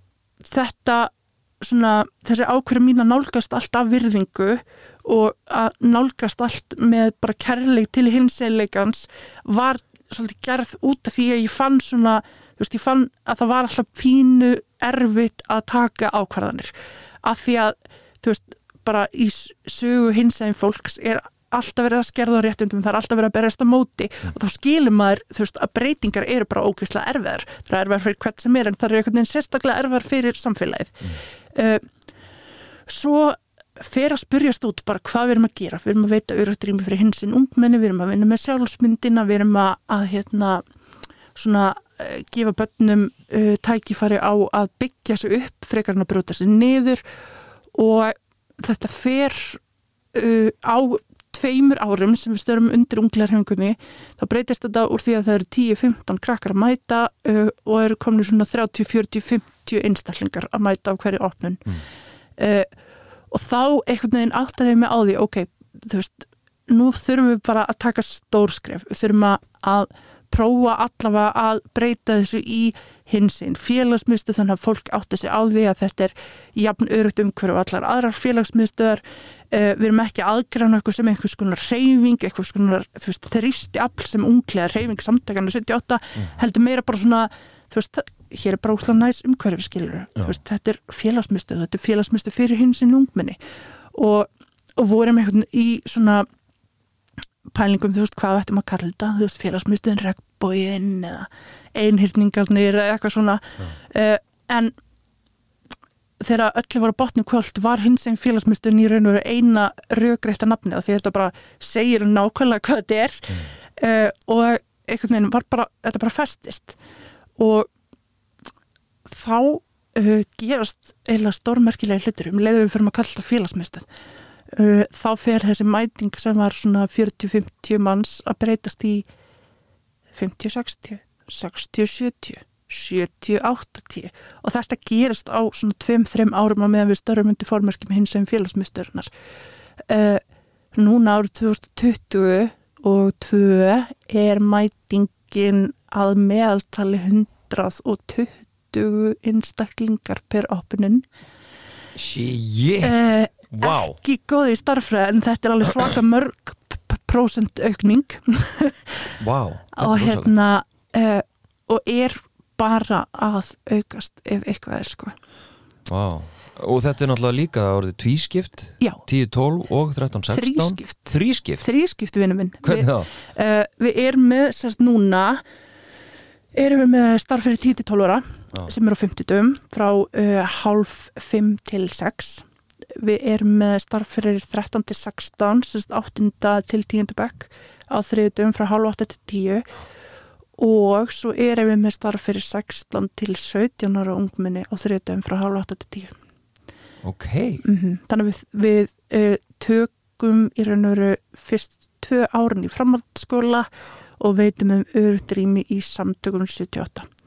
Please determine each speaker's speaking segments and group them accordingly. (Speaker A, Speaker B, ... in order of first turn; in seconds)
Speaker A: 0.4-16.7, 17.2-31.8, 32.9-40.6, 41.3-47.0, 47.7-49.6, 50.1-61.7, 62.4-62.7, 63.3-93.4, 93.9-96.3, 97.5-104.7, 106.2-116.8, 117.4-117.7, 119.1-123.8, 124.5-129.1, 130.1-139.1, 139.9-140.2, 140.7-151.0, 152.8-159.1, 159.7-165.1, 170.3-175.4, 176.5-189.7, 190.6-196.1, 197.6-203.7, 204.2-207.1
Speaker B: 151.9-154.0, 159.2-160.3, 165.9-171.7, 172.6-173.1, 197.0-197.6